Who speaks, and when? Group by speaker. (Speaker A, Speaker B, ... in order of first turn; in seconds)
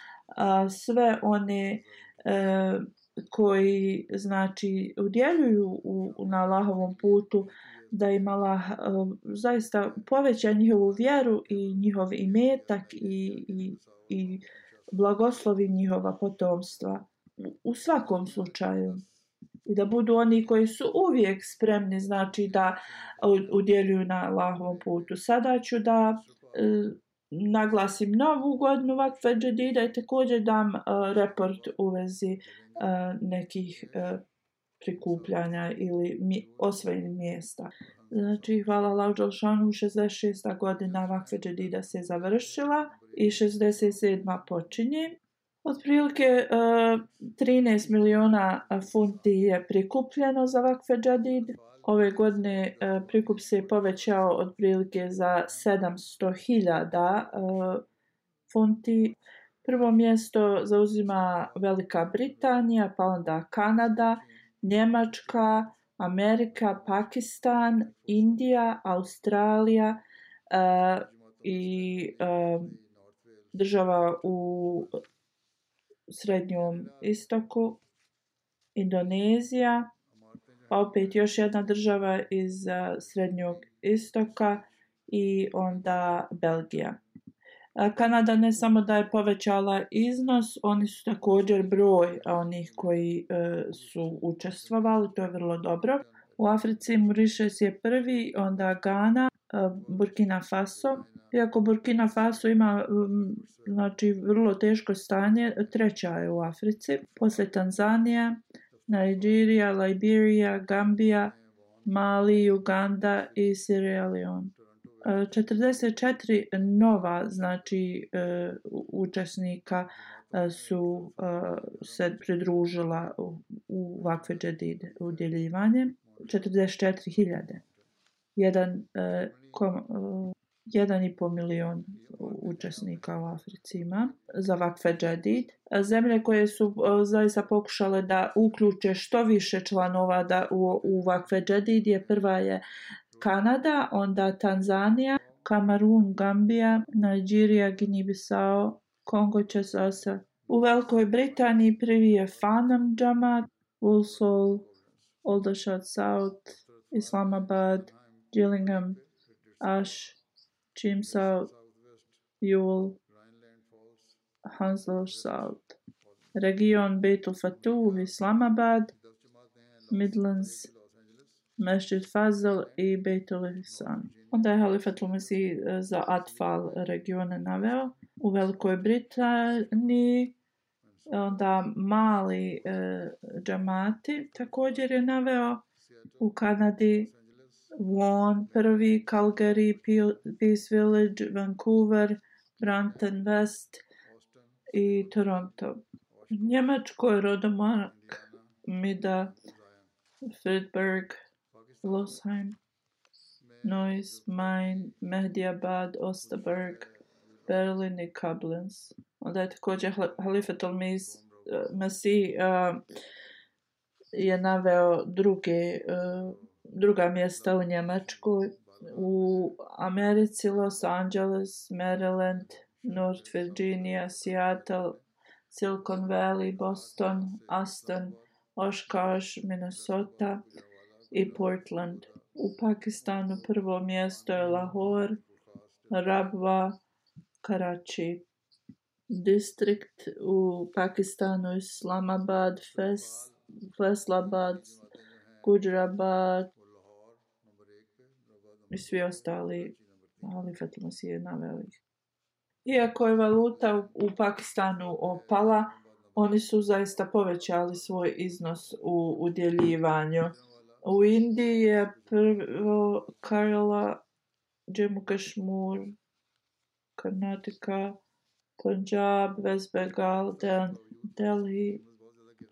Speaker A: 0.3-19.0, 19.7-34.2, 34.8-57.8, 58.5-72.8, 73.5-75.0, 76.1-77.8, 78.8-79.9, 80.7-87.0, 87.8-127.6, 128.4-142.6, 143.2-154.7, 155.2-159.0, 159.6-160.2, 160.8-161.5, 162.4-163.0, 164.4-165.8, 166.3-168.9, 169.9-170.7, 171.6-180.4, 181.1-185.6, 186.2-187.1, 187.8-193.8, 194.7-199.3, 200.3-201.2, 201.8-202.6, 203.6-206.9, 207.5-212.8, 214.1-230.5, 231.1-235.2, 235.9-236.8, 237.4-238.3, 239.1-244.8, 245.4-246.5, 248.7-251.8, 252.7-264.0, 264.7-266.0, 267.0-268.0, 268.6-271.8